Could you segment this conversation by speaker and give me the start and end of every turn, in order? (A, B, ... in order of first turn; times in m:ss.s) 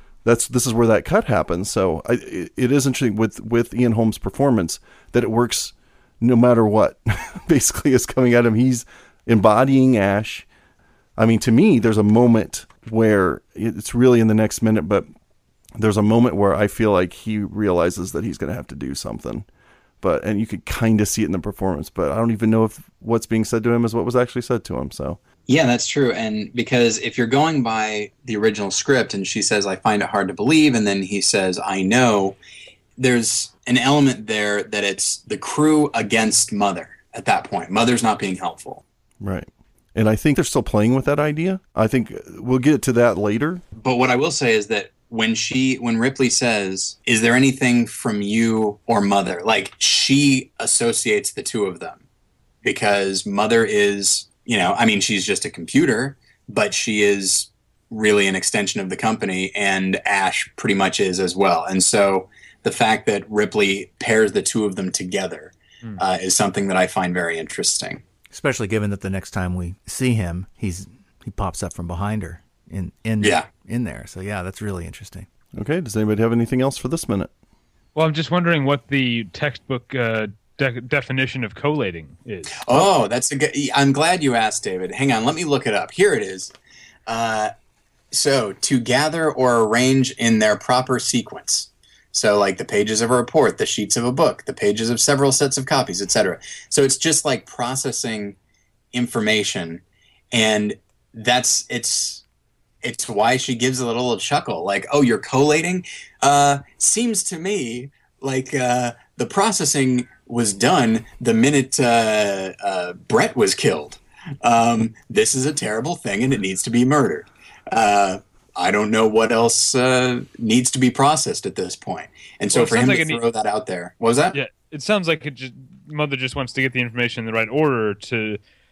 0:00.2-0:10.5 A
0:11.2-0:15.1 A
0:15.8-0:19.4 A
0:20.0-0:25.2 A
0:25.5-0:32.4 B
0:33.0-0:38.8 B
0:39.2-0:43.6 A
0:43.8-0:52.0 B
0:52.6-1:08.0 B
1:08.3-1:15.3 C
1:13.2-1:13.5 B
1:15.6-1:17.3 A
1:17.9-1:22.9 D
1:22.6-1:26.5 B
1:27.1-1:27.5 B
1:28.1-1:38.4 B
1:38.9-1:39.8 B
1:40.3-1:42.2 B
1:42.8-2:04.4 B
2:02.5-2:03.2 D
2:04.3-2:08.4 D